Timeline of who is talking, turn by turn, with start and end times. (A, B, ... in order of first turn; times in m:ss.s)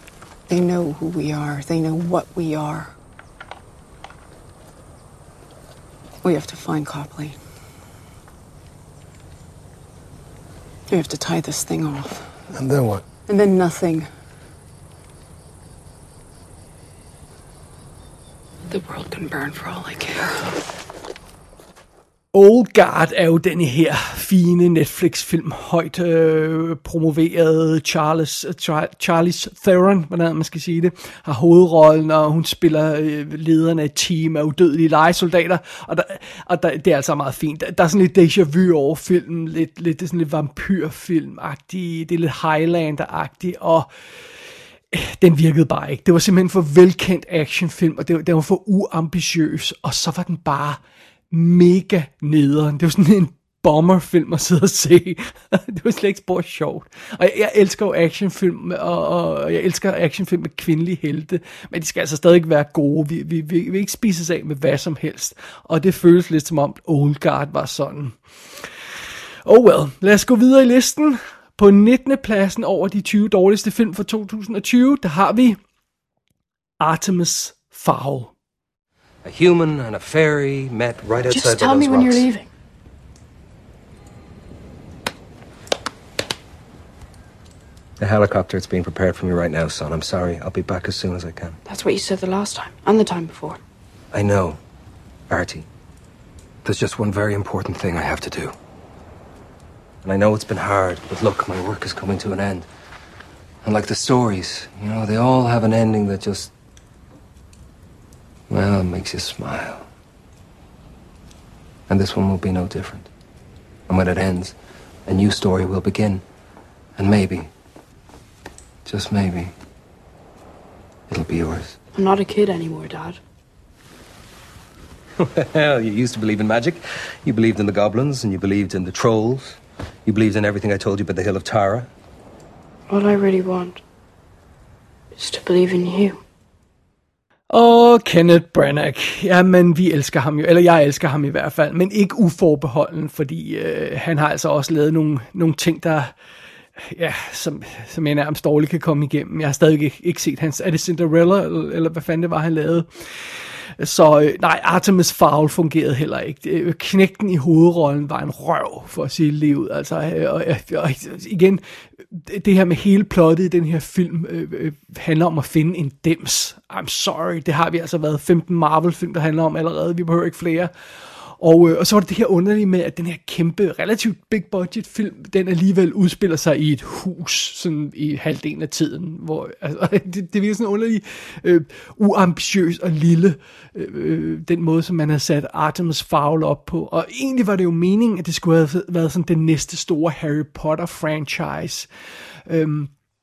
0:00.5-0:02.9 A
0:06.2-0:07.4 A
0:10.9-0:12.3 A
0:13.3-0:14.1 A
0:18.7-0:20.5 A
0:22.3-0:43.9 B
0:44.9-0:50.8 B
0:51.3-1:08.2 B
1:09.4-1:15.6 B
1:16.8-1:18.3 B
1:19.2-1:22.3 C
1:21.3-1:22.5 A
1:28.0-1:31.6 C
1:31.7-1:33.6 A
1:34.1-1:34.6 C
1:35.3-1:35.7 C
1:36.6-1:38.6 C
1:40.0-1:42.7 C
1:43.6-1:46.5 C
1:48.5-1:49.9 C
1:51.9-1:53.1 C
1:53.9-1:54.6 C
1:55.1-1:56.2 C
1:57.0-1:57.5 C
1:58.9-1:59.5 C
2:01.1-2:01.8 C
2:02.0-2:03.2 A
2:05.2-2:11.9 C
2:12.9-2:13.8 A
2:15.2-2:16.2 A
2:17.5-2:26.2 B
2:26.8-2:50.7 B
2:51.4-3:11.9 B
3:12.5-3:12.9 B